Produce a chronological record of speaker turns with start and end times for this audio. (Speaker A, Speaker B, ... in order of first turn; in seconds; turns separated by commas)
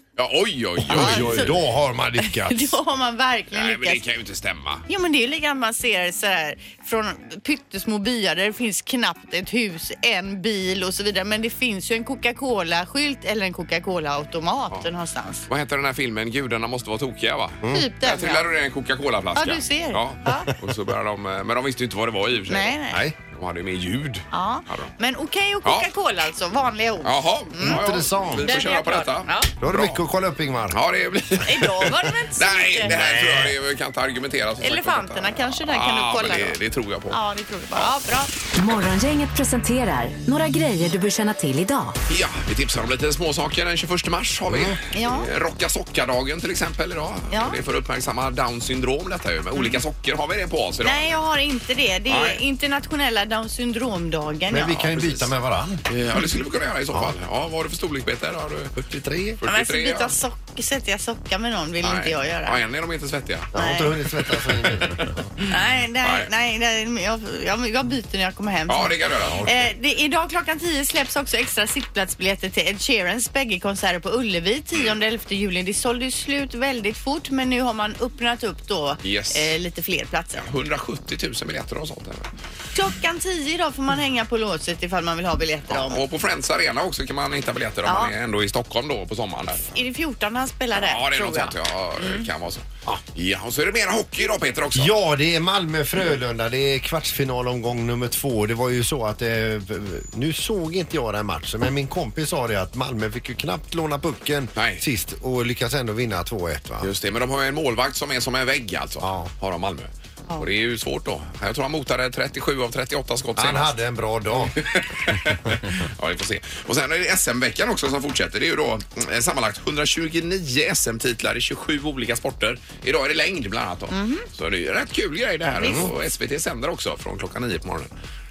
Speaker A: 0.2-1.6, Speaker B: 0.8-2.8, Speaker C: 0.9-1.5, Speaker C: 2.2-4.0, Speaker A: 3.5-4.8, Speaker C: 4.9-15.4, Speaker A: 15.5-22.8, Speaker C: 17.7-18.4, Speaker C: 19.4-20.5, Speaker C: 22.5-23.0, Speaker A: 23.3-24.9, Speaker C: 24.3-27.8, Speaker A: 25.6-25.9, Speaker A: 27.0-30.0, Speaker B: 27.6-28.5, Speaker C: 28.4-29.5, Speaker B: 29.6-30.8, Speaker A: 30.7-37.2, Speaker C: 31.4-32.9, Speaker B: 32.9-33.5, Speaker C: 34.6-36.6, Speaker C: 37.1-38.3, Speaker D: 38.5-42.0, Speaker A: 42.1-51.1, Speaker B: 44.5-44.8, Speaker C: 44.9-45.3, Speaker C: 47.3-47.6, Speaker C: 50.8-54.8, Speaker A: 52.1-52.4, Speaker B: 54.5-55.8, Speaker A: 54.7-55.3, Speaker A: 55.9-60.1, Speaker B: 59.0-59.4, Speaker C: 59.5-62.6, Speaker A: 61.8-63.5, Speaker B: 63.5-65.2, Speaker C: 63.5-63.9, Speaker A: 64.6-64.9, Speaker C: 65.5-80.5, Speaker A: 66.0-66.3, Speaker A: 68.7-69.4, Speaker B: 69.2-69.7, Speaker A: 79.0-79.5, Speaker A: 80.4-82.3, Speaker C: 82.7-86.0, Speaker A: 85.7-89.7, Speaker C: 87.8-88.1, Speaker C: 89.7-92.3, Speaker A: 90.7-94.9, Speaker B: 94.7-106.9, Speaker A: 104.5-104.8, Speaker A: 106.8-113.8, Speaker B: 109.0-109.3, Speaker B: 113.4-114.6, Speaker A: 114.4-127.9, Speaker C: 123.9-124.3, Speaker B: 125.6-125.9